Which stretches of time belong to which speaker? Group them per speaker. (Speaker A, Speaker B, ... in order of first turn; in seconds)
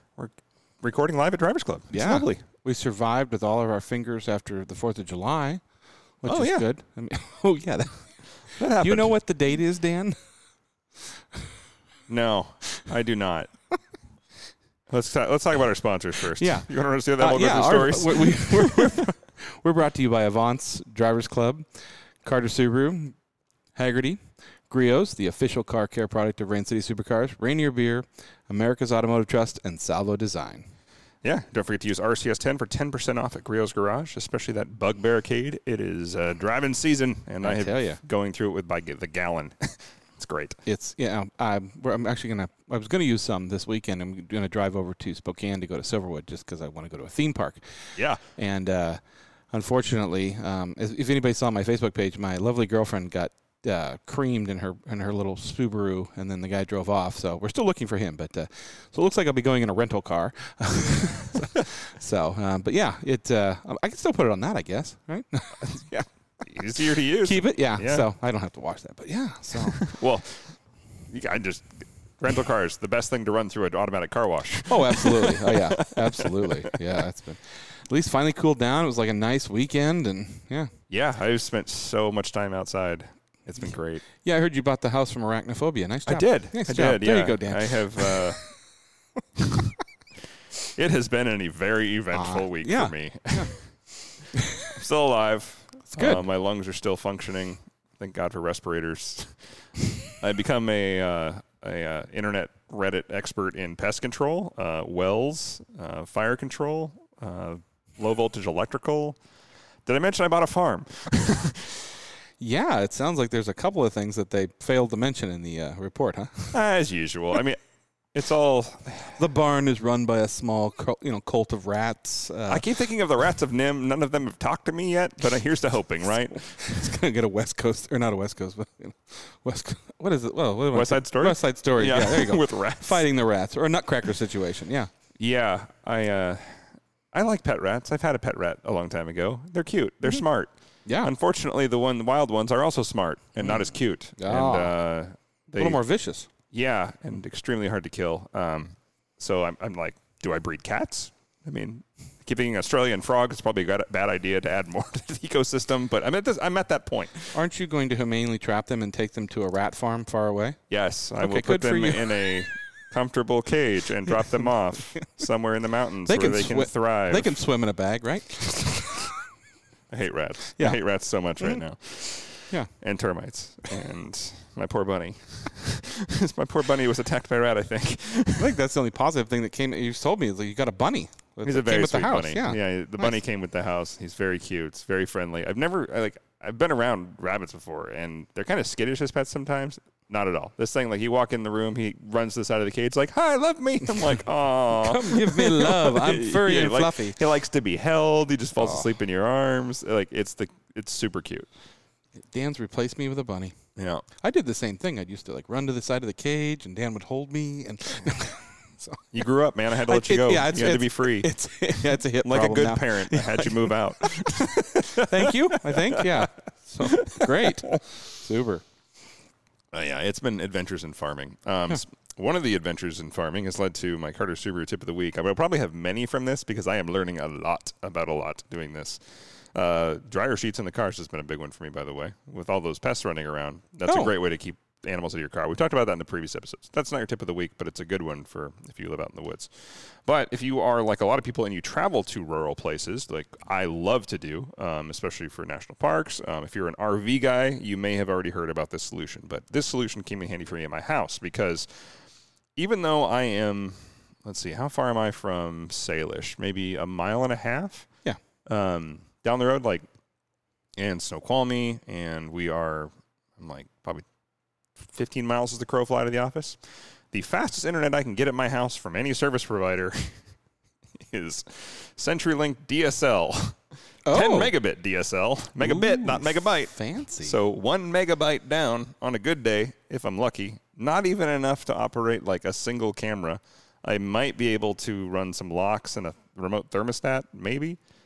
Speaker A: 0.2-2.4, 6.2-6.7, 8.6-9.1, 12.1-13.5, 14.9-18.9, 31.2-40.6, 48.0-48.2, 65.6-68.0, 69.7-70.6, 71.1-76.7, 80.9-84.0, 86.0-88.4, 90.7-93.6, 94.6-99.5, 100.1-109.2, 109.8-111.7, 116.5-117.6, 118.1-119.2, 122.5-126.6, 130.7-133.0, 135.2-145.8, 146.5-157.4, 160.7-167.3, 169.9-178.5, 181.4-201.5, 203.8-204.0, 209.1-211.3, 212.2-216.3, 216.8-217.8, 219.7-229.0, 229.5-251.7, 252.6-257.9, 258.4-259.9, 260.8-264.0, 264.8-266.6, 267.1-270.1, 271.1-287.8
Speaker B: 1.9-5.6, 6.2-10.2, 16.4-21.6, 22.2-23.1, 23.8-30.7, 37.4-38.0, 40.6-49.0, 49.5-66.0, 67.2-69.9, 74.7-80.7, 84.2-88.3, 92.1-93.6, 95.9-96.2, 112.4-116.6, 119.2-122.6, 126.6-134.9, 140.8-141.1, 143.4-144.8, 145.6-146.3, 157.3-160.6, 161.2-162.3, 166.1-168.9, 172.4-172.7, 178.4-183.1, 194.7-197.2, 198.6-198.9, 202.3-203.6, 204.1-209.1, 209.8-214.3, 214.9-218.6, 233.9-234.1, 274.1-274.5, 275.6-277.4